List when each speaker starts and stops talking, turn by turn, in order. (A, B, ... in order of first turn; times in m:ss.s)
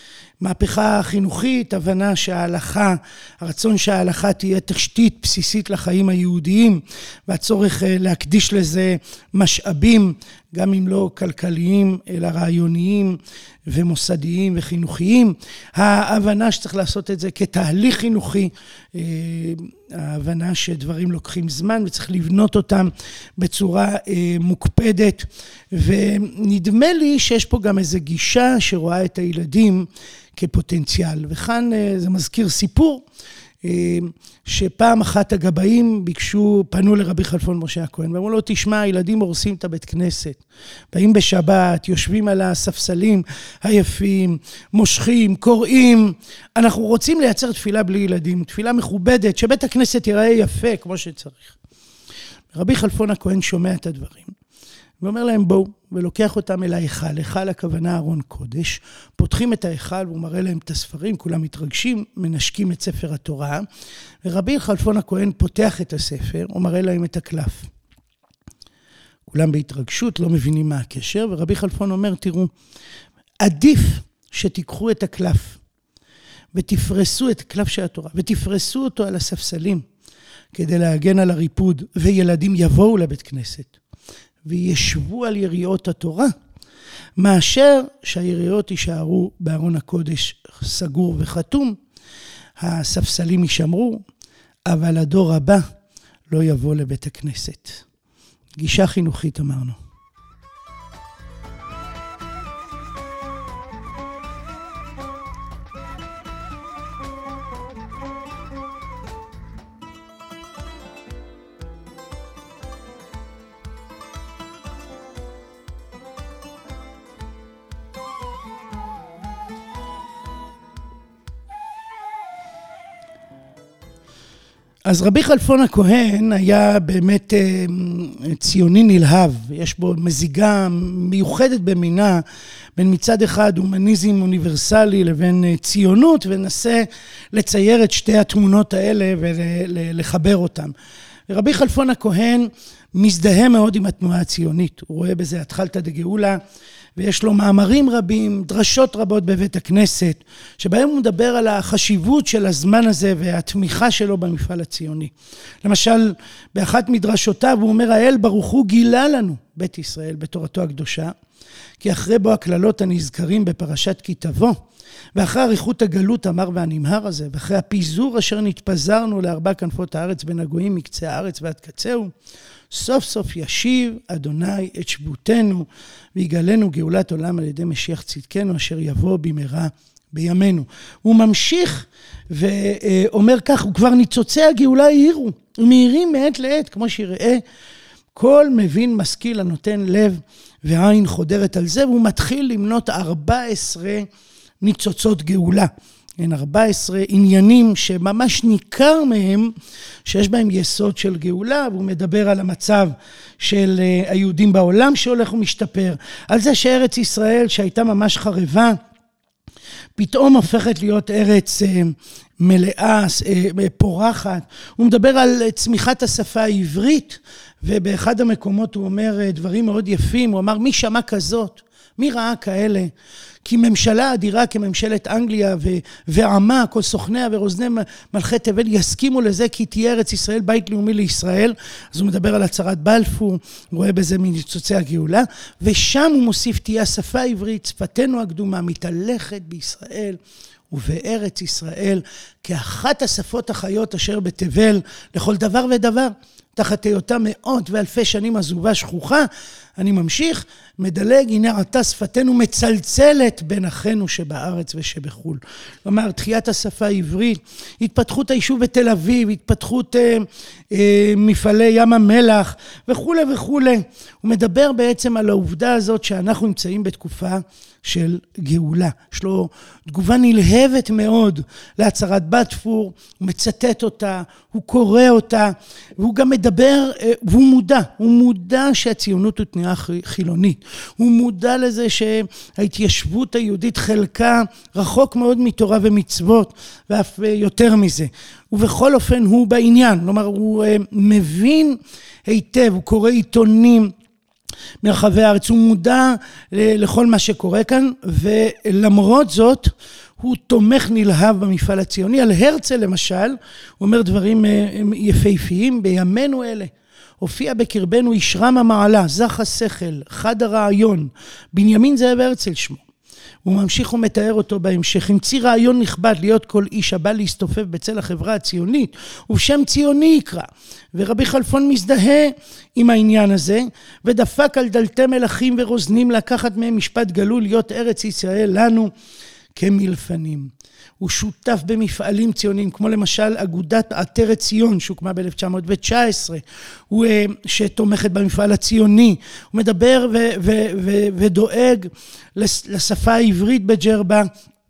0:00.4-0:33.0 A
0:33.6-0:51.6 A
0:52.5-0:54.3 A
0:55.0-1:03.6 A
1:04.2-1:07.7 A
1:09.3-1:12.5 A
1:13.4-1:15.6 A
1:16.5-1:19.8 A
1:20.5-1:23.8 A
1:24.4-1:26.3 A
1:27.2-1:31.8 A
1:32.6-1:34.0 A
1:34.7-1:35.6 A
1:36.3-1:37.8 A
1:38.6-1:39.8 A
2:04.9-2:12.2 A
2:12.8-2:20.7 A
2:21.3-2:26.4 A
2:27.0-2:35.1 A
2:35.6-2:41.1 A
2:41.8-2:44.6 A
2:45.2-2:52.1 A
2:52.7-3:07.4 A
3:08.1-3:14.1 A
3:14.6-3:19.5 A
3:20.1-3:28.8 A
3:30.0-3:42.9 A
3:43.4-4:00.2 A
4:00.7-4:53.9 A
4:54.8-5:12.8 A
5:13.4-5:28.9 A
5:29.6-5:44.3 A